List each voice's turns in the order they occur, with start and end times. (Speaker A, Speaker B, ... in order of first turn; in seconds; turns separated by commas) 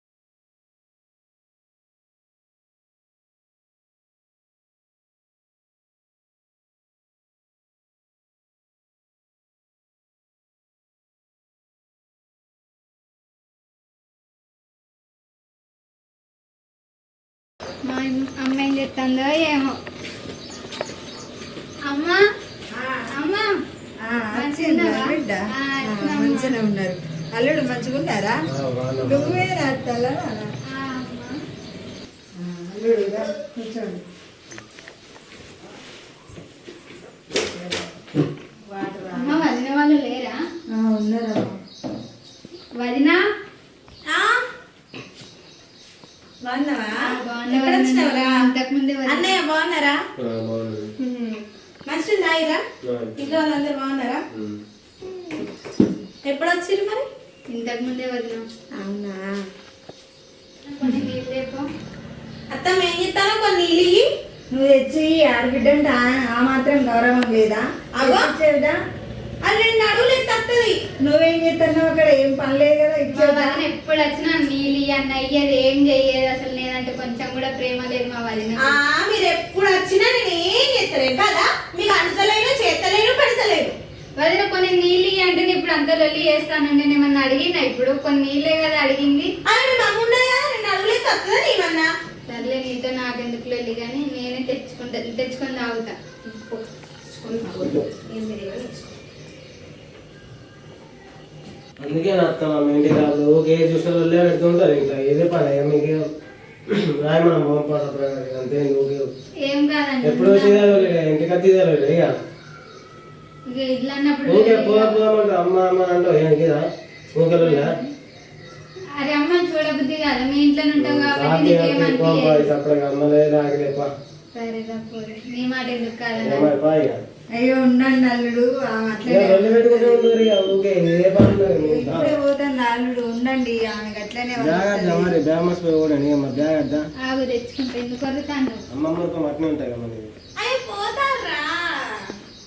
Speaker A: 17.9-19.8, Speaker A: 21.9-22.2, Speaker B: 22.7-23.1, Speaker A: 23.1-23.5, Speaker B: 24.0-28.4, Speaker A: 24.4-26.6, Speaker C: 28.5-29.5, Speaker B: 29.0-30.5, Speaker A: 30.7-31.4, Speaker B: 32.4-34.0, Speaker B: 37.4-37.9, Speaker B: 38.6-39.5, Speaker A: 39.1-40.4, Speaker B: 40.7-41.6, Speaker A: 42.8-43.2, Speaker D: 44.1-44.4, Speaker D: 46.4-46.9, Speaker A: 47.0-49.3, Speaker D: 47.5-48.3, Speaker D: 49.1-50.0, Speaker C: 50.2-50.9, Speaker D: 51.0-52.6, Speaker C: 52.8-53.1, Speaker D: 53.2-54.2, Speaker C: 54.3-54.6, Speaker D: 56.2-57.1, Speaker A: 57.5-58.4, Speaker D: 58.8-59.4, Speaker A: 60.7-61.7, Speaker D: 62.5-64.1, Speaker B: 64.5-68.8, Speaker D: 68.0-68.3, Speaker D: 69.4-70.8, Speaker B: 71.0-73.6, Speaker A: 73.1-78.8, Speaker D: 78.6-83.8, Speaker A: 84.2-89.3, Speaker D: 89.5-91.9, Speaker A: 92.3-96.0, Speaker D: 96.3-99.0, Speaker C: 101.8-106.0, Speaker C: 106.7-109.1, Speaker A: 109.5-110.9, Speaker C: 110.0-112.1, Speaker A: 113.5-115.0, Speaker C: 114.3-116.6, Speaker C: 117.2-117.7, Speaker A: 117.4-117.9, Speaker A: 119.0-122.5, Speaker C: 120.8-123.9, Speaker A: 124.3-126.5, Speaker C: 126.2-127.0, Speaker B: 127.4-130.3, Speaker C: 129.1-132.1, Speaker B: 131.6-135.2, Speaker C: 134.4-136.9, Speaker A: 137.0-138.6, Speaker C: 138.7-140.1, Speaker D: 140.4-142.1